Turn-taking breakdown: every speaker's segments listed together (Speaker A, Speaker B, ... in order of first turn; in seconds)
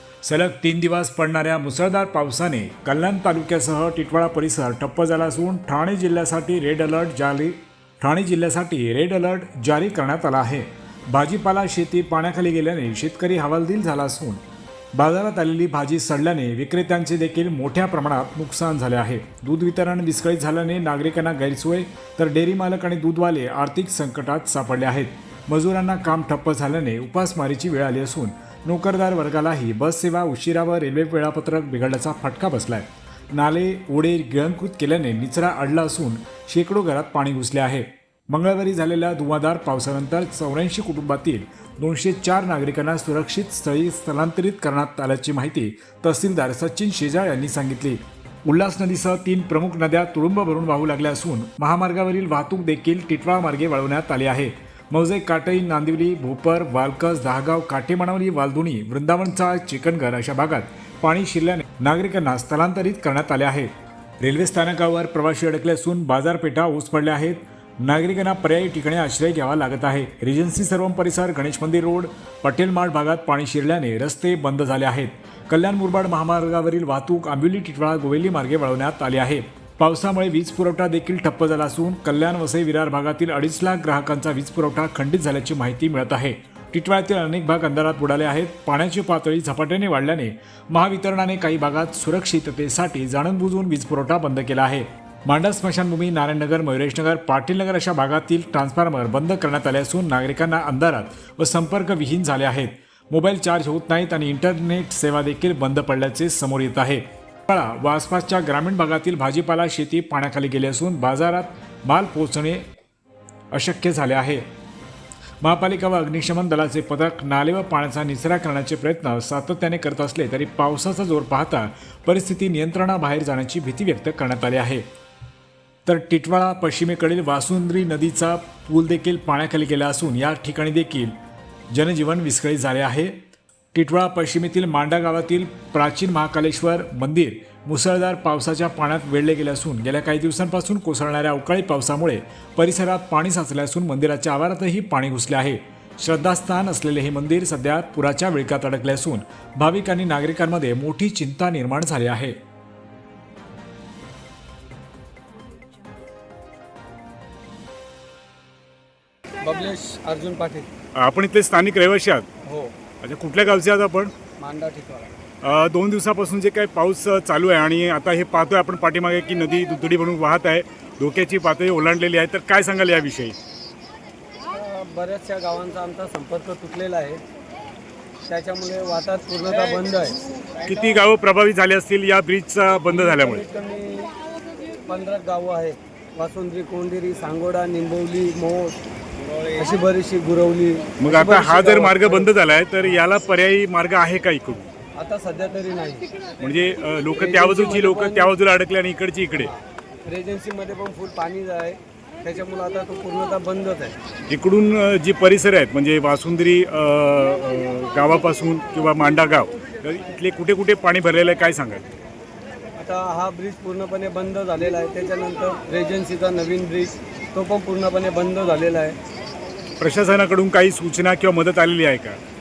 Speaker A: 0.2-14.4, 14.9-112.6, 113.5-114.5, 115.4-124.8, 125.8-131.1, 131.7-133.2, 133.7-152.3
Speaker B: 159.4-160.7, 162.4-162.7, 164.4-165.1, 174.5-177.2, 178.2-180.2, 183.0-184.1, 184.8-188.8, 189.5-192.3, 195.0-196.1, 197.2-198.3, 199.4-203.9, 212.8-218.9
Speaker C: 160.9-162.3, 163.0-164.1, 165.4-173.3, 180.6-183.4, 191.0-194.7, 196.4-199.5, 204.3-211.8, 219.8-222.2